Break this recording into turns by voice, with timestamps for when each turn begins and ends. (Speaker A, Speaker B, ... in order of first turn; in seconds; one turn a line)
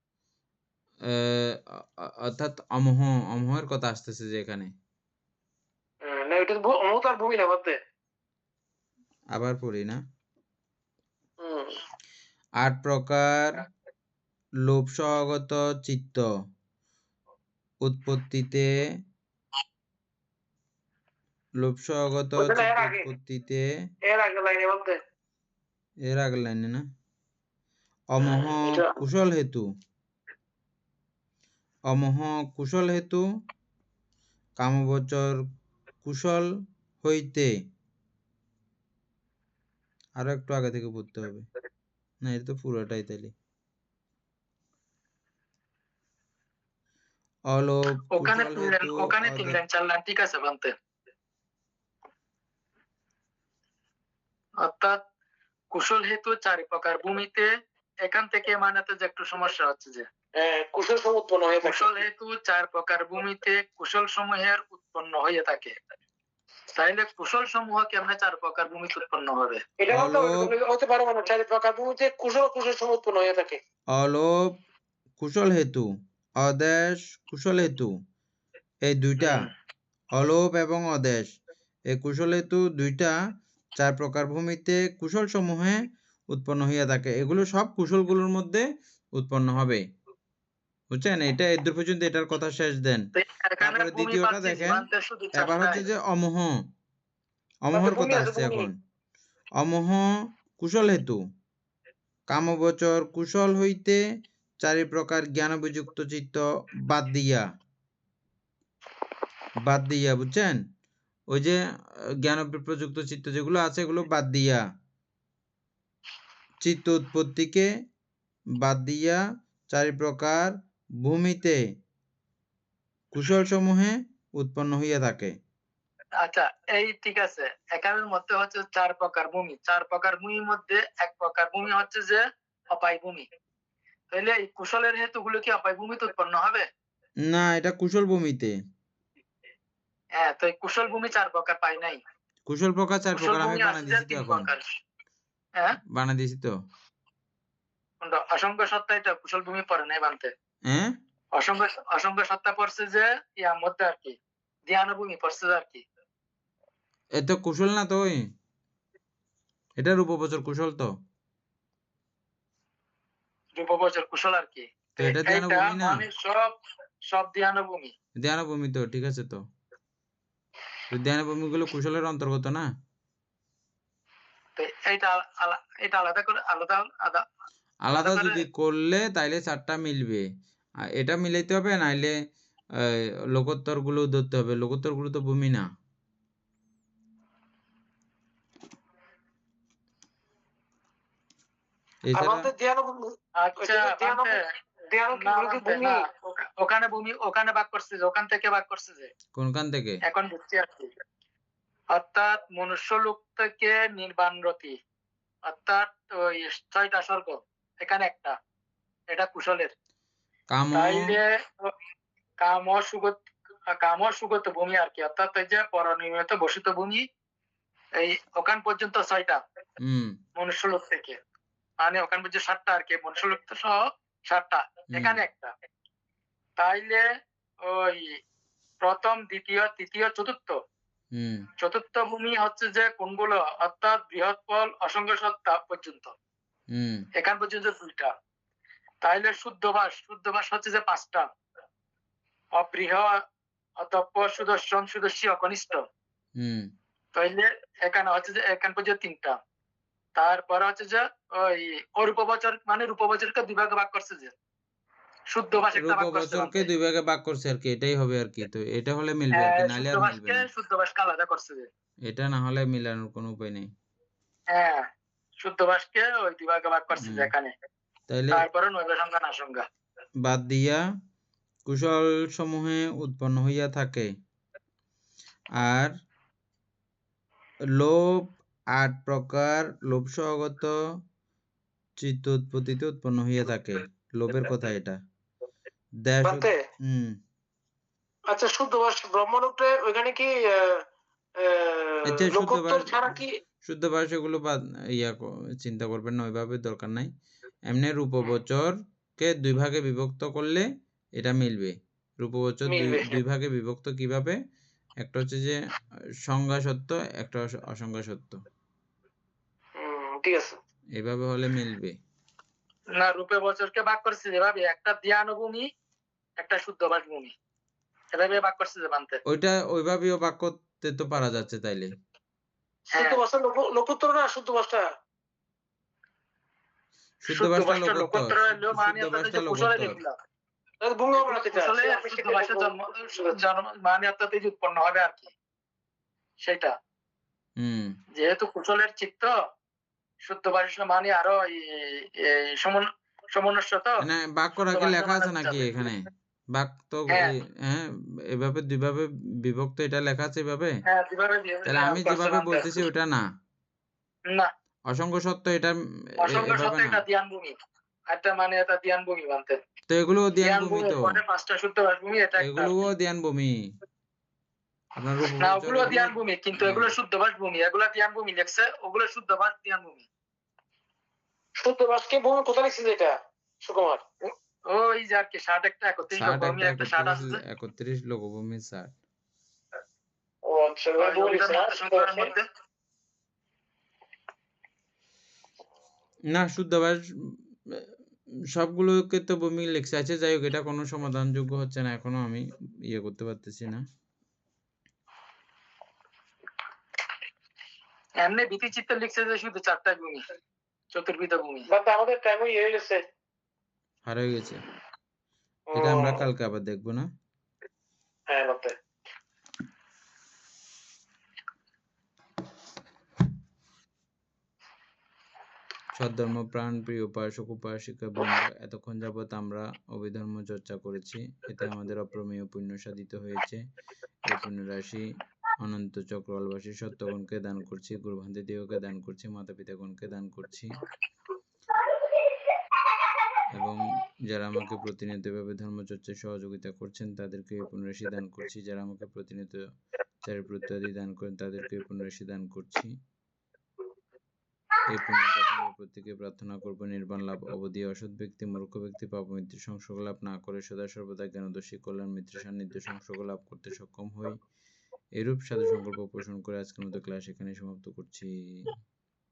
Speaker A: 1.1-4.7
Speaker B: 6.0-7.8
Speaker A: 9.3-10.0
Speaker B: 11.4-11.8
Speaker A: 12.6-13.6
Speaker A: 14.7-16.2
Speaker A: 17.8-18.8
Speaker A: 21.6-23.7
Speaker B: 22.4-23.1
Speaker B: 24.1-25.0
Speaker A: 26.1-26.8
Speaker A: 28.1-29.7
Speaker B: 28.6-29.0
Speaker A: 31.9-33.2
Speaker A: 34.6-35.4
Speaker A: 36.0-36.5
Speaker A: 37.0-37.5
Speaker A: 40.2-41.5
Speaker A: 42.2-43.3
Speaker A: 47.5-49.6
Speaker C: 48.2-50.7
Speaker C: 54.6-55.0
Speaker C: 55.7-57.5
Speaker C: 58.0-60.0
Speaker B: 60.4-62.0
Speaker C: 61.6-65.7
Speaker C: 66.7-69.6
Speaker B: 69.8-73.6
Speaker A: 69.9-70.5
Speaker A: 74.0-74.6
Speaker A: 75.2-77.9
Speaker A: 78.8-79.5
Speaker C: 79.2-79.5
Speaker A: 80.2-81.3
Speaker A: 81.9-83.2
Speaker A: 83.8-89.8
Speaker A: 90.9-93.1
Speaker C: 93.2-95.8
Speaker A: 93.6-96.7
Speaker A: 97.7-98.7
Speaker B: 97.7-98.7
Speaker A: 99.6-101.2
Speaker A: 102.3-104.0
Speaker A: 104.6-107.5
Speaker A: 109.6-110.6
Speaker A: 111.3-111.6
Speaker A: 112.2-114.6
Speaker A: 116.6-117.7
Speaker A: 118.6-119.2
Speaker A: 119.7-121.6
Speaker A: 123.1-125.3
Speaker C: 126.2-133.2
Speaker C: 134.1-136.7
Speaker A: 137.3-138.5
Speaker C: 140.2-142.0
Speaker A: 142.5-144.5
Speaker C: 143.1-144.6
Speaker A: 145.9-146.5
Speaker C: 148.0-150.3
Speaker A: 150.7-150.9
Speaker C: 151.3-155.8
Speaker A: 157.2-158.3
Speaker A: 159.8-160.9
Speaker C: 163.5-166.5
Speaker A: 165.0-166.0
Speaker C: 167.1-167.9
Speaker A: 168.2-169.4
Speaker A: 170.9-172.7
Speaker C: 174.6-177.2
Speaker A: 177.8-180.2
Speaker C: 178.0-178.4
Speaker A: 180.9-182.1
Speaker A: 182.8-185.7
Speaker A: 192.1-192.5
Speaker B: 192.1-194.4
Speaker C: 193.4-194.4
Speaker B: 194.9-196.0
Speaker C: 195.1-199.1
Speaker A: 199.3-200.0
Speaker C: 200.0-200.9
Speaker C: 201.9-204.8
Speaker C: 205.4-208.3
Speaker C: 209.1-209.7
Speaker A: 210.5-211.2
Speaker C: 210.7-211.7
Speaker C: 212.4-213.2
Speaker C: 213.7-217.0
Speaker C: 218.0-219.4
Speaker A: 219.8-220.2
Speaker C: 220.4-221.2
Speaker C: 221.8-223.7
Speaker C: 224.3-225.5
Speaker A: 224.9-225.2
Speaker C: 226.6-227.0
Speaker C: 227.7-228.2
Speaker C: 228.8-230.6
Speaker A: 231.2-231.4
Speaker C: 231.6-236.1
Speaker A: 236.7-237.0
Speaker C: 237.2-238.1
Speaker C: 239.0-241.3
Speaker C: 242.6-243.2
Speaker C: 243.8-245.8
Speaker A: 246.4-246.7
Speaker C: 247.1-249.4
Speaker C: 250.2-254.3
Speaker C: 255.3-256.7
Speaker A: 255.6-260.4
Speaker C: 259.4-261.7
Speaker A: 262.1-263.7
Speaker C: 264.5-264.9
Speaker C: 265.4-267.5
Speaker A: 267.0-267.3
Speaker A: 268.1-268.4
Speaker C: 268.3-269.6
Speaker A: 270.2-270.8
Speaker A: 271.6-274.1
Speaker A: 275.6-275.9
Speaker A: 277.8-280.8
Speaker A: 282.0-285.0
Speaker A: 286.1-287.2
Speaker B: 286.2-286.6
Speaker B: 288.3-290.8
Speaker B: 291.4-293.3
Speaker A: 292.1-293.1
Speaker A: 293.6-297.1
Speaker A: 297.7-300.6
Speaker A: 301.2-304.4
Speaker B: 302.7-303.2
Speaker A: 305.0-305.6
Speaker A: 306.2-308.4
Speaker B: 309.8-310.6
Speaker A: 311.0-312.0
Speaker C: 313.0-315.7
Speaker C: 316.4-317.3
Speaker C: 318.1-319.2
Speaker A: 319.3-321.9
Speaker B: 322.9-324.8
Speaker C: 322.9-323.2
Speaker A: 327.2-330.0
Speaker C: 327.3-330.1
Speaker B: 330.8-333.4
Speaker C: 331.1-335.3
Speaker C: 336.4-336.7
Speaker A: 337.6-337.9
Speaker C: 338.1-339.3
Speaker C: 340.2-344.0
Speaker A: 344.0-350.8
Speaker C: 344.7-345.9
Speaker C: 350.9-351.8
Speaker A: 351.6-353.2
Speaker B: 351.8-352.8
Speaker A: 354.9-357.0
Speaker C: 356.2-357.6
Speaker C: 358.1-359.6
Speaker A: 359.9-361.2
Speaker C: 360.4-362.8
Speaker A: 362.4-363.7
Speaker A: 365.0-366.9
Speaker C: 365.4-370.1
Speaker B: 371.6-374.0
Speaker C: 374.2-377.4
Speaker A: 376.1-378.9
Speaker B: 380.5-382.3
Speaker C: 381.0-382.4
Speaker A: 386.3-387.8
Speaker A: 388.5-393.8
Speaker C: 398.2-400.2
Speaker C: 400.9-401.7
Speaker B: 401.7-403.0
Speaker A: 404.1-404.6
Speaker B: 405.7-406.2
Speaker A: 405.7-407.1
Speaker B: 408.3-408.7
Speaker A: 415.9-423.6
Speaker A: 424.3-425.1
Speaker A: 425.6-430.7
Speaker A: 433.5-439.6
Speaker A: 440.2-442.9
Speaker A: 444.9-454.4
Speaker A: 455.2-458.7